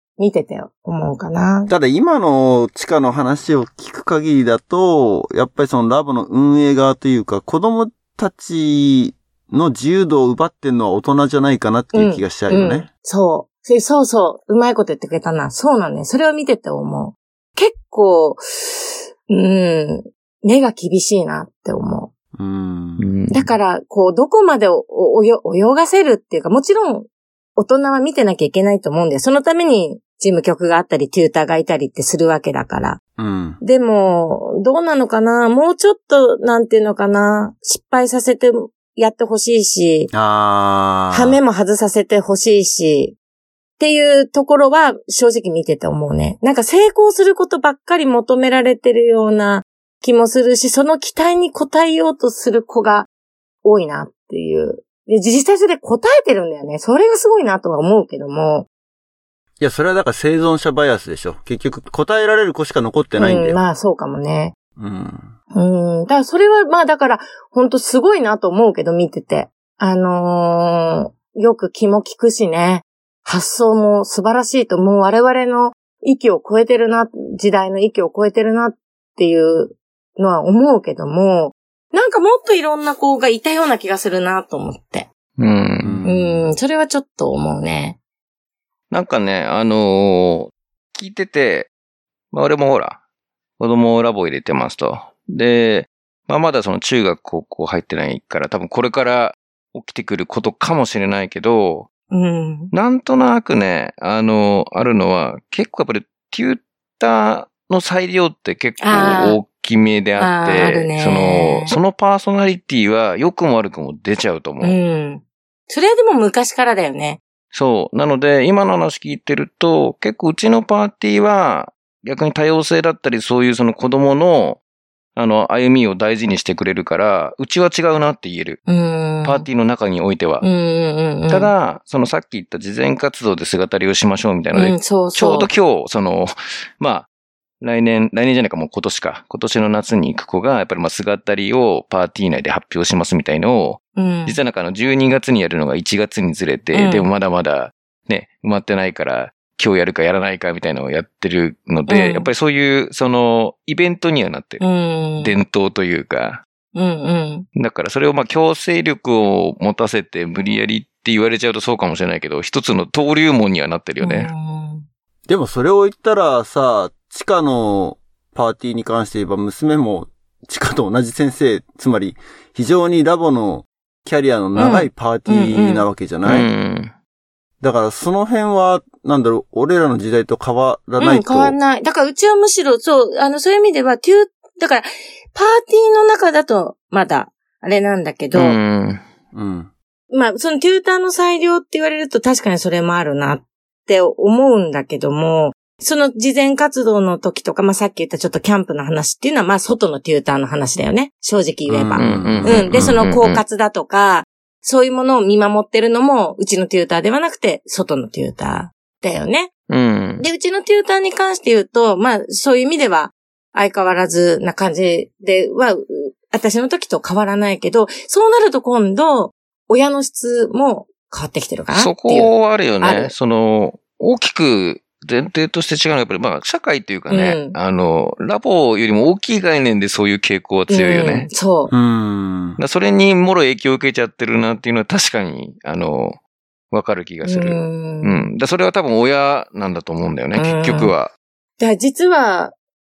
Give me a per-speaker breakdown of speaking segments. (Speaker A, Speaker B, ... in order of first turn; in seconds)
Speaker A: 0.2-1.7, 11.9-22.1, 23.3-33.0, 33.6-40.1, 41.1-43.2, 43.8-53.1, 53.6-58.7, 63.2-64.5, 65.5-85.1, 86.0-88.0, 102.1-102.7, 108.8-109.4, 110.2-111.8, 114.6-117.2, 128.7-129.5, 130.4-131.5, 134.5-135.5, 143.9-144.4, 146.7-147.1, 151.9-152.3, 154.6-155.3, 156.7-157.5, 164.0-164.8, 174.5-175.8, 181.0-188.6, 190.1-209.5, 210.2-223.1, 227.1-227.6, 230.7-231.7, 237.2-238.3, 240.3-240.9, 241.6-242.5
Speaker B: 1.7-12.9, 22.4-23.1, 33.2-33.6, 40.1-41.4, 59.6-63.6, 64.8-65.3, 85.8-86.5, 165.3-176.5, 177.6-181.6, 189.3-189.7, 201.7-203.0, 231.7-232.6
Speaker C: 23.0-23.5, 85.4-86.0, 88.9-91.7, 92.3-93.0, 93.6-101.9, 102.7-114.8, 117.5-124.6, 125.1-128.6, 129.2-130.4, 131.3-137.1, 137.6-154.6, 155.2-156.4, 157.5-164.3, 176.2-176.9, 188.3-189.0, 202.0-203.4, 209.7-210.2, 221.7-231.3, 232.6-236.2, 236.7-241.1